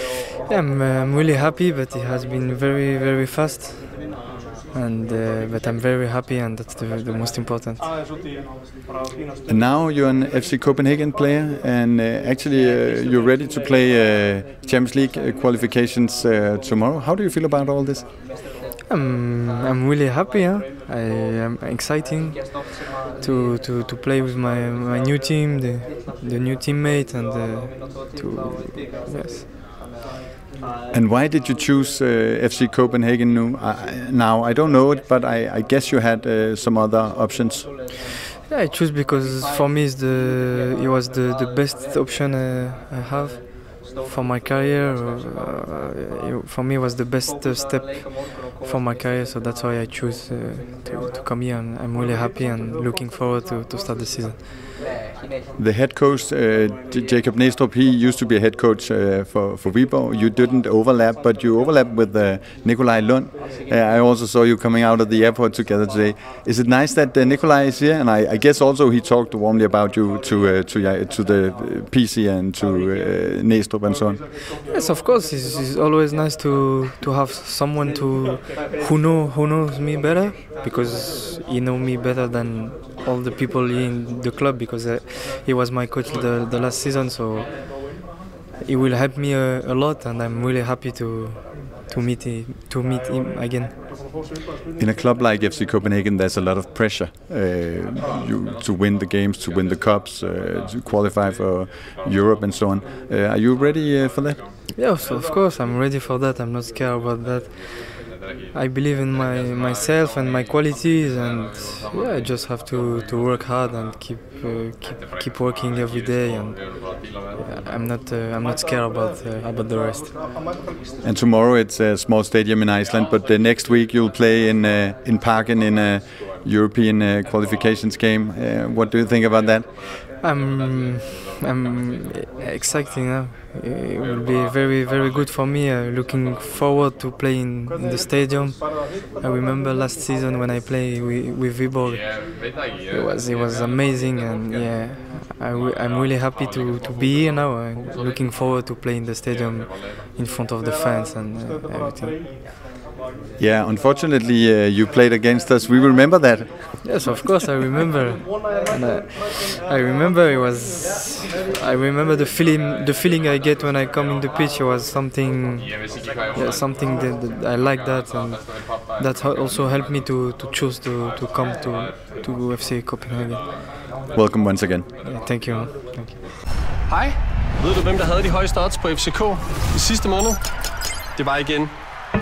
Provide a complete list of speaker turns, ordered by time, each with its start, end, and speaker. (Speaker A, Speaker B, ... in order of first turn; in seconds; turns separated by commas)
Speaker A: 0.5-4.1, Speaker A: 4.7-7.9, Speaker B: 9.5-18.0, Speaker A: 18.9-29.5, Speaker B: 30.9-37.7, Speaker A: 38.5-54.4, Speaker B: 55.6-74.2, Speaker A: 74.6-87.6, Speaker A: 88.6-93.7, Speaker B: 94.8-104.4, Speaker A: 104.8-116.7, Speaker A: 117.4-120.1, Speaker B: 121.0-129.7, Speaker A: 130.2-142.1, Speaker A: 142.9-152.2, Speaker B: 153.4-156.7, Speaker A: 156.8-165.8, Speaker A: 166.3-173.4, Speaker B: 174.1-174.8, Speaker A: 175.0-176.2, Speaker C: 176.9-180.4, Speaker C: 181.1-181.7